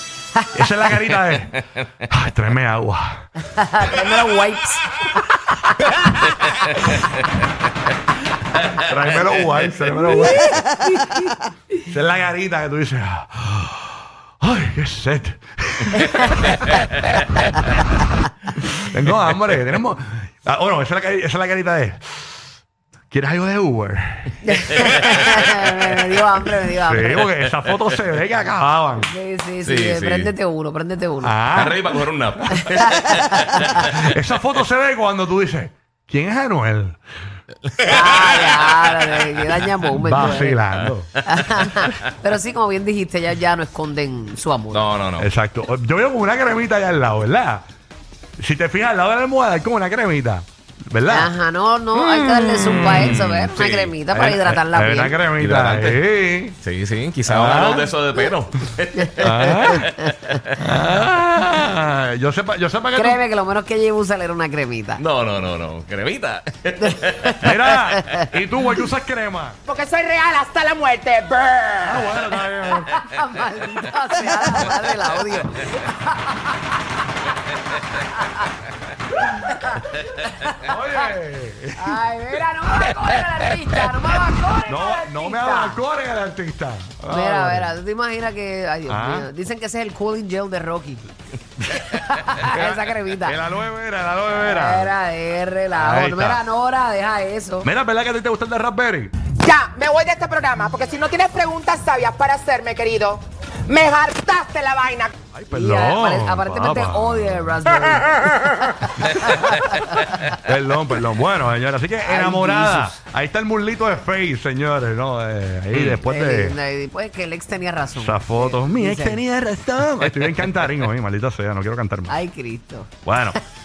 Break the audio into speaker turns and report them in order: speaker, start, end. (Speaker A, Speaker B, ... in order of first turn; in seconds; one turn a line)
Speaker A: 0.5-3.3
Speaker B: 3.5-6.6
Speaker A: 8.6-10.9
Speaker B: 10.0-11.3
Speaker A: 11.8-17.7
Speaker A: 18.6-22.3
Speaker A: 23.1-24.4
Speaker B: 24.4-27.3
Speaker A: 26.9-29.1
Speaker B: 29.0-31.5
Speaker C: 29.6-30.3
Speaker A: 31.2-31.8
Speaker C: 31.5-34.0
Speaker B: 32.7-33.7
Speaker A: 33.6-37.0
Speaker C: 37.6-39.2
Speaker B: 37.8-40.6
Speaker A: 39.9-41.1
Speaker C: 40.7-42.0
Speaker B: 41.3-44.9
Speaker C: 44.7-45.3
Speaker A: 45.2-47.6
Speaker A: 48.4-51.3
Speaker B: 51.1-55.2
Speaker A: 52.0-53.2
Speaker C: 52.9-54.0
Speaker A: 54.1-56.6
Speaker C: 55.4-56.0
Speaker C: 56.6-60.8
Speaker A: 57.3-57.9
Speaker B: 59.0-60.4
Speaker A: 59.2-59.9
Speaker A: 60.6-63.2
Speaker B: 63.0-65.0
Speaker C: 65.0-68.0
Speaker B: 66.8-68.2
Speaker A: 67.4-69.6
Speaker D: 69.7-72.1
Speaker A: 71.8-73.0
Speaker B: 72.6-76.7
Speaker B: 77.8-78.5
Speaker A: 79.2-79.8
Speaker B: 79.4-81.1
Speaker A: 80.6-82.0
Speaker B: 81.8-85.8
Speaker A: 84.7-87.8
Speaker B: 87.1-91.1
Speaker A: 88.9-89.3
Speaker B: 91.7-93.4
Speaker A: 91.8-94.9
Speaker B: 94.4-97.7
Speaker A: 95.8-96.4
Speaker A: 97.6-99.1
Speaker D: 99.4-105.1
Speaker A: 105.3-107.6
Speaker B: 105.5-110.3
Speaker A: 109.0-116.6
Speaker B: 112.0-112.9
Speaker C: 115.7-116.0
Speaker B: 116.0-119.2
Speaker A: 118.0-122.2
Speaker C: 120.1-120.8
Speaker B: 122.1-123.4
Speaker A: 123.0-123.4